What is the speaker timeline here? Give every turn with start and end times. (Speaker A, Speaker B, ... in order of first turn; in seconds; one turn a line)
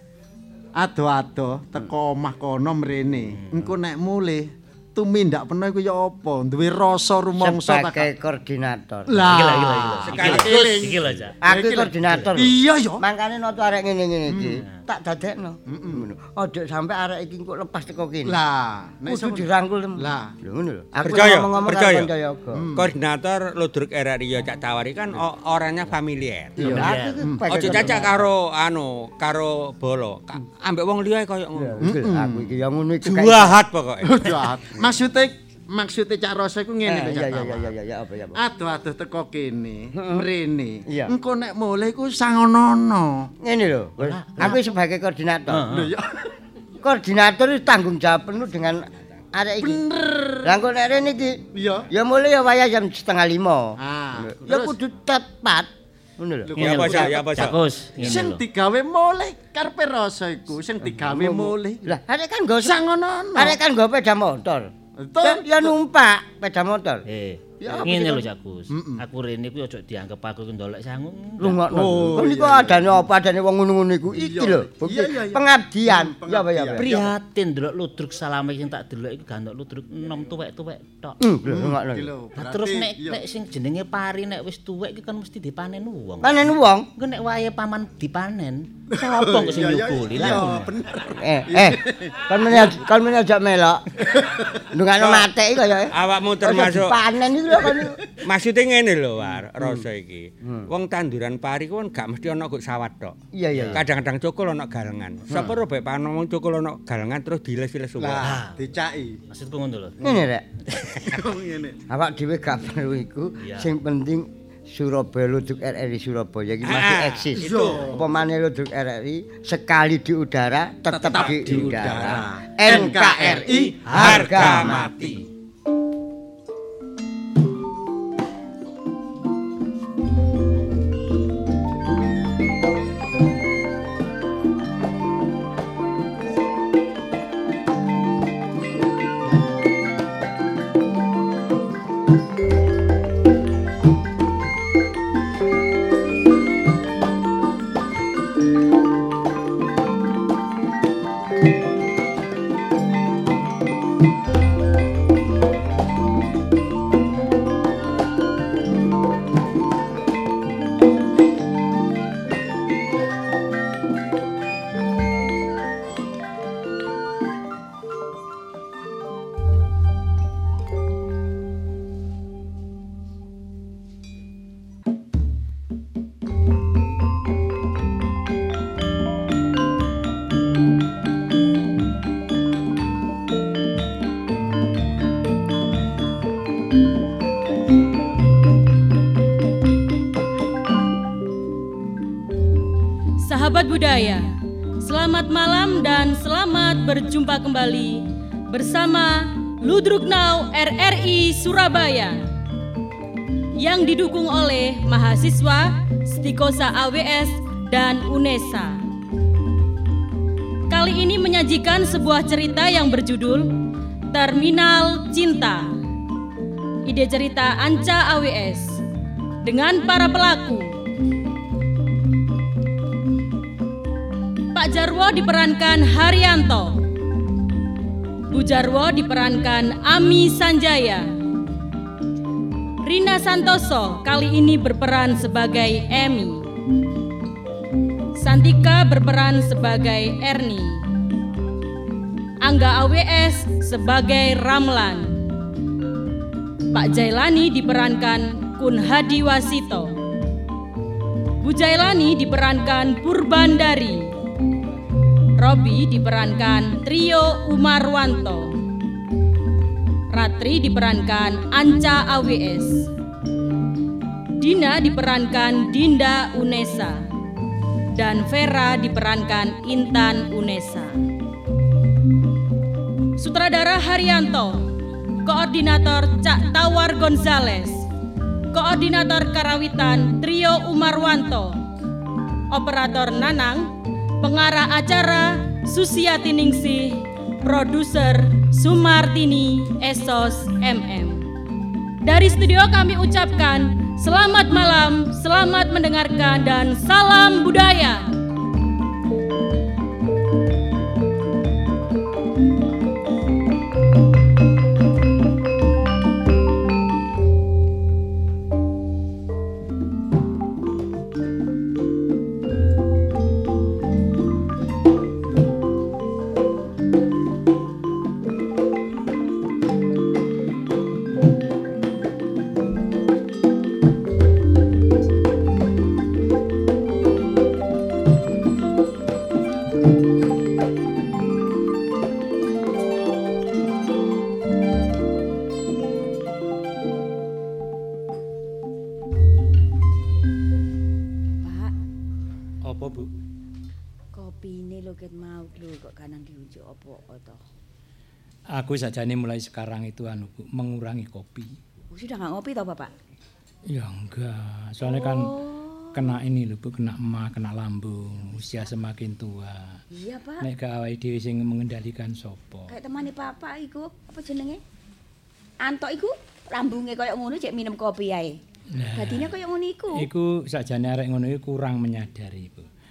Speaker A: 0.8-8.1
Speaker B: 7.4-9.5
Speaker A: 9.1-13.0
Speaker C: 9.2-11.4
Speaker D: 10.1-10.9
Speaker B: 11.4-18.4
Speaker A: 14.3-14.6
Speaker A: 15.7-16.0
Speaker A: 18.3-20.3
Speaker B: 19.1-22.7
Speaker D: 21.0-22.1
Speaker A: 22.6-22.9
Speaker D: 22.8-26.6
Speaker A: 26.6-28.0
Speaker B: 26.6-28.3
Speaker C: 26.7-27.2
Speaker D: 27.5-31.8
Speaker B: 31.6-33.6
Speaker A: 31.8-32.5
Speaker D: 33.0-34.4
Speaker A: 34.1-37.7
Speaker B: 36.9-38.4
Speaker A: 38.4-43.3
Speaker B: 40.0-40.2
Speaker B: 43.4-45.7
Speaker C: 44.0-44.7
Speaker C: 45.5-45.9
Speaker A: 45.7-46.3
Speaker B: 46.8-49.8
Speaker A: 49.6-50.6
Speaker B: 50.4-56.8
Speaker A: 51.5-51.9
Speaker A: 53.8-54.8
Speaker A: 56.5-61.9
Speaker C: 56.6-58.4
Speaker D: 56.6-57.6
Speaker B: 60.8-62.8
Speaker A: 62.6-63.6
Speaker B: 63.4-67.0
Speaker A: 65.0-65.8
Speaker C: 67.1-71.8
Speaker B: 67.6-68.2
Speaker A: 68.7-69.0
Speaker B: 71.4-77.1
Speaker A: 71.6-73.0
Speaker A: 74.1-77.1
Speaker C: 76.8-81.2
Speaker B: 81.2-82.1
Speaker A: 81.5-83.2
Speaker C: 82.4-90.7
Speaker B: 86.2-86.9
Speaker A: 89.0-92.8
Speaker B: 90.2-90.5
Speaker B: 91.1-93.8
Speaker A: 94.0-94.7
Speaker B: 94.7-98.0
Speaker D: 95.9-97.0
Speaker D: 98.2-103.2
Speaker B: 103.3-103.8
Speaker C: 103.5-103.8
Speaker D: 103.7-108.3
Speaker A: 108.0-109.2
Speaker C: 108.2-108.6
Speaker C: 109.3-110.0
Speaker B: 110.0-110.5
Speaker A: 111.0-111.8
Speaker B: 111.9-125.1
Speaker C: 113.4-113.7
Speaker D: 116.6-117.3
Speaker A: 117.4-118.1
Speaker A: 120.9-125.2
Speaker D: 123.9-125.0
Speaker E: 193.2-194.2
Speaker E: 194.8-202.1
Speaker E: 203.6-208.7
Speaker E: 210.7-213.4
Speaker E: 214.1-215.6
Speaker E: 216.9-218.7
Speaker E: 219.4-220.7
Speaker E: 224.6-226.7
Speaker E: 228.3-231.0
Speaker E: 232.9-236.4
Speaker E: 238.2-240.7
Speaker E: 242.4-245.0
Speaker E: 246.7-249.9
Speaker E: 251.4-254.0
Speaker E: 255.4-258.4
Speaker E: 260.1-262.7
Speaker E: 264.4-266.9
Speaker E: 268.0-270.9
Speaker E: 273.2-274.5
Speaker E: 275.3-277.7
Speaker E: 278.6-281.5
Speaker E: 282.5-283.6
Speaker E: 284.2-286.9
Speaker E: 287.5-291.2
Speaker E: 292.1-298.0
Speaker F: 341.4-341.7
Speaker G: 342.6-343.1
Speaker F: 344.1-347.4
Speaker G: 348.5-351.6
Speaker F: 351.9-352.9
Speaker G: 353.7-355.4
Speaker F: 354.8-356.2
Speaker G: 355.9-359.8
Speaker F: 359.9-360.5
Speaker G: 360.4-362.7
Speaker F: 362.7-364.6
Speaker F: 365.6-368.4
Speaker G: 368.8-369.4
Speaker F: 369.0-370.1
Speaker G: 370.0-372.7